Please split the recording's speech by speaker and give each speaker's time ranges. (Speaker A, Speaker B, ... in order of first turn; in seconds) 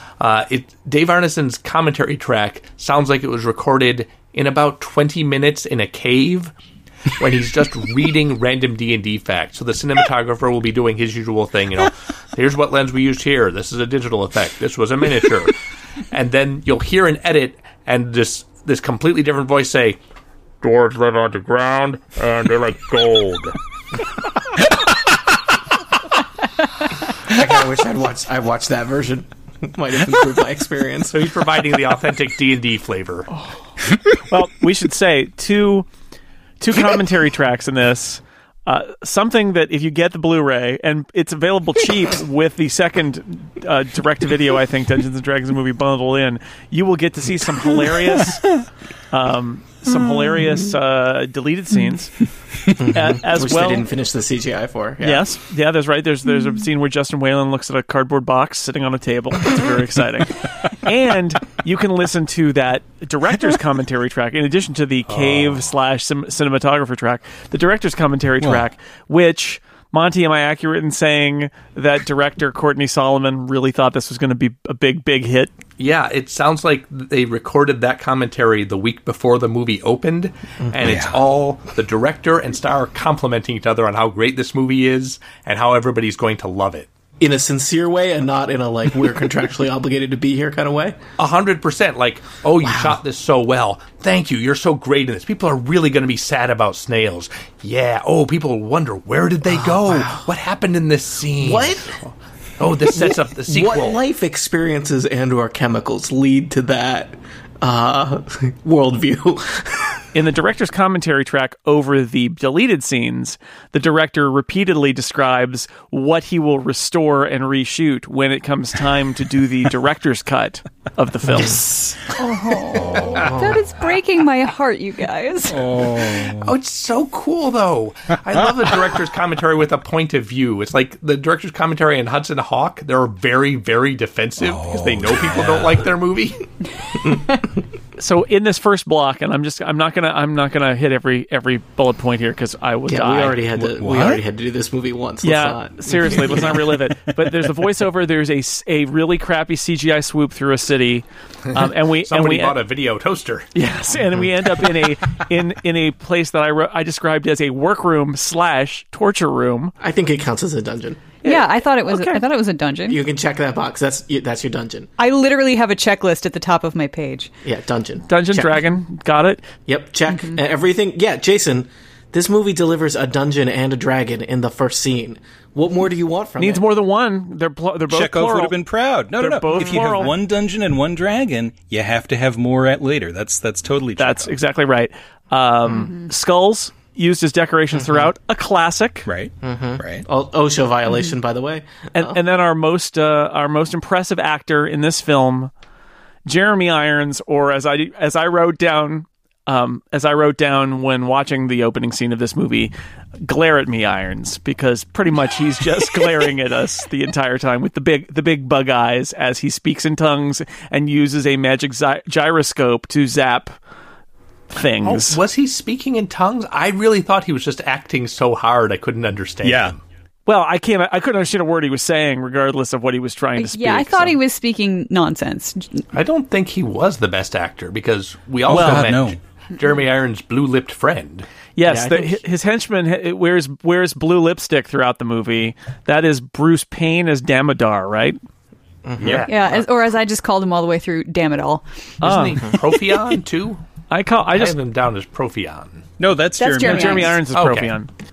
Speaker A: 0.2-6.5, 7.2-15.6, 16.1-20.0, 20.6-23.5, 31.1-33.3, 75.8-86.9, 91.2-104.0, 126.3-136.4, 152.0-153.5, 214.8-219.8, 225.9-231.3, 239.0-239.6, 242.0-243.6, 244.3-245.8, 247.3-247.7
Speaker B: 27.3-31.2, 52.8-55.2, 87.2-91.0, 92.6-92.9, 99.5-100.2, 101.4-101.9, 102.8-110.0, 123.2-123.6, 142.9-146.6, 159.8-161.1, 162.9-164.9, 167.4-168.6, 169.7-176.7, 187.7-188.1, 189.4-192.2, 231.6-232.2, 238.8-239.3
Speaker C: 33.3-35.9, 36.6-48.5, 49.1-52.1, 52.8-53.8, 55.0-75.5, 110.1-122.0, 138.0-143.4, 145.2-152.6, 153.5-159.7, 161.2-162.2, 168.1-169.4, 176.4-178.6, 179.2-180.1, 184.0-189.1, 191.9-195.5, 196.2-202.7, 203.2-213.5, 214.5-215.2, 220.3-224.2, 228.5-228.8, 231.6-238.2, 242.0-242.4, 243.9-244.5, 246.6-247.9
Speaker D: 80.8-81.2, 122.9-123.2, 125.6-126.5, 134.4-135.8, 143.6-144.2, 177.9-184.4, 189.1-190.1, 219.4-219.8, 228.5-229.2, 239.0-239.2, 246.0-247.1
Speaker E: 122.2-125.9, 161.2-163.0, 165.0-167.3, 170.1-170.4, 223.3-225.9, 239.3-241.6, 246.4-247.2